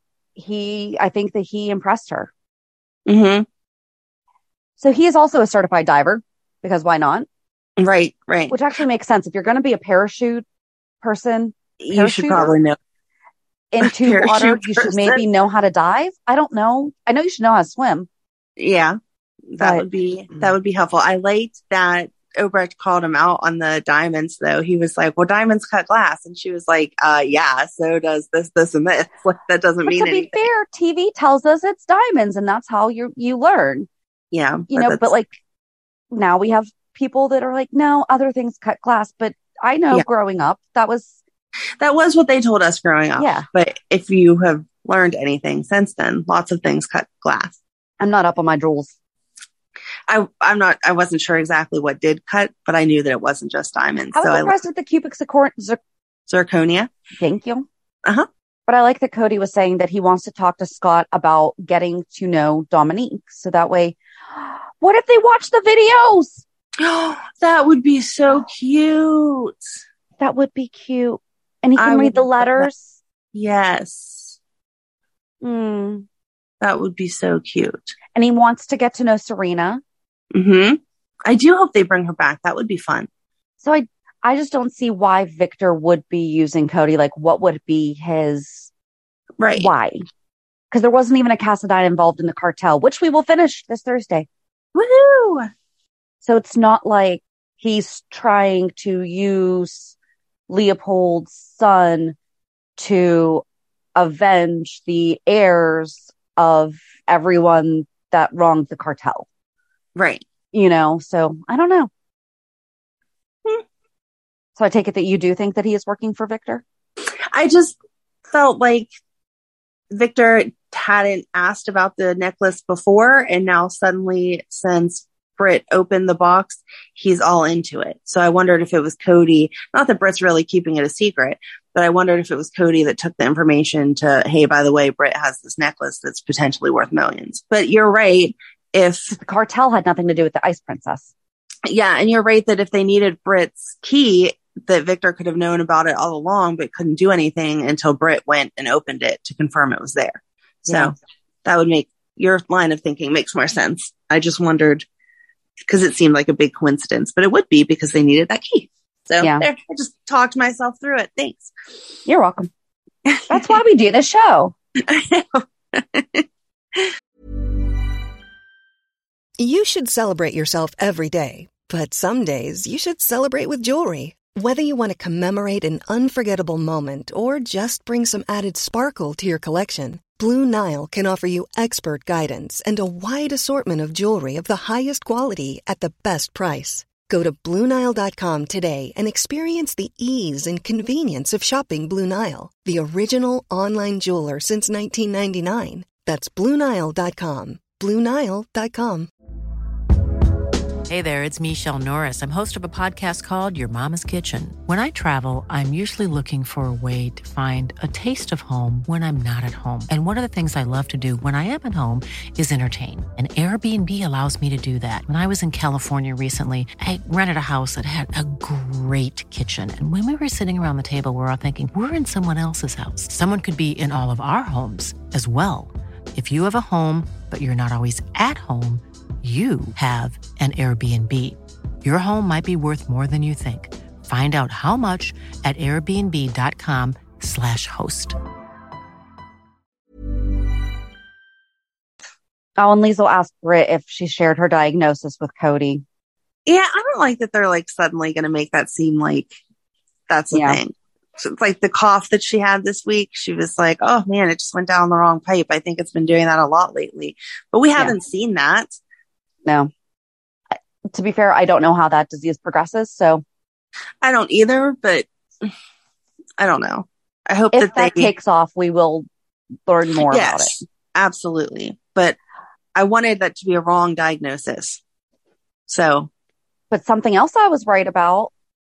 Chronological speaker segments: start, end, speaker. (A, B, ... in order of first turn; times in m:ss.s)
0:00.4-0:02.3 A
0:03.1-0:03.5 B
0:04.8-0:07.3 A
0:07.8-0:08.6 B
0:08.5-0:10.4 A
0:11.0-0:12.5 A
0:11.8-0:12.8 B
0:13.7-0:18.1 A
0:13.8-0:15.2 B
0:18.6-0:19.0 B
0:19.5-0:30.5 B
0:19.6-0:19.8 A
0:29.8-0:33.9 A
0:34.3-0:35.1 B
0:34.7-0:35.3 A
0:36.1-0:41.2 A
0:41.8-0:47.6 B
0:43.2-0:43.4 A
0:48.0-0:48.9 A
0:50.1-0:54.6 B
0:54.1-0:55.8 A
0:56.3-0:56.9 B
0:57.2-0:57.7 A
0:58.7-1:06.4 A
1:06.8-1:09.8 B
1:10.2-1:13.0 A
1:11.8-1:12.7 B
1:13.3-1:14.4 B
1:15.4-1:16.0 A
1:16.6-1:17.9 B
1:18.2-1:19.8 A
1:20.3-1:23.1 B
1:23.6-1:28.7 A
1:29.4-1:29.7 B
1:29.6-1:30.0 A
1:30.7-1:34.3 A
1:34.7-1:35.5 B
1:36.2-1:39.9 A
1:40.5-1:42.2 A
1:42.8-1:43.4 A
1:43.9-1:49.2 A
1:49.9-1:50.2 B
1:50.5-1:51.9 A
1:54.6-1:56.6 A
1:57.3-1:57.8 B
1:58.3-1:58.9 B
1:59.9-2:19.1 B
2:19.1-2:21.1 A
2:21.7-2:34.8 B
2:30.7-2:30.9 A
2:35.6-2:41.5 B
2:39.2-2:39.5 A
2:42.0-2:42.5 A
2:43.0-2:43.5 B
2:43.3-2:44.5 A
2:44.8-2:46.9 B
2:49.4-3:19.1 C
3:20.9-3:58.2 D
4:02.6-4:05.8 A
4:06.4-4:09.3 B
4:10.1-4:18.7 B
4:10.3-4:10.6 A
4:19.4-4:19.7 A
4:20.9-4:23.2 A
4:24.0-4:25.5 B
4:26.4-4:28.1 B
4:27.5-4:29.0 A
4:29.7-4:30.5 A
4:30.1-4:32.2 B
4:32.7-4:34.8 B
4:35.7-4:36.1 B
4:36.7-4:38.3 A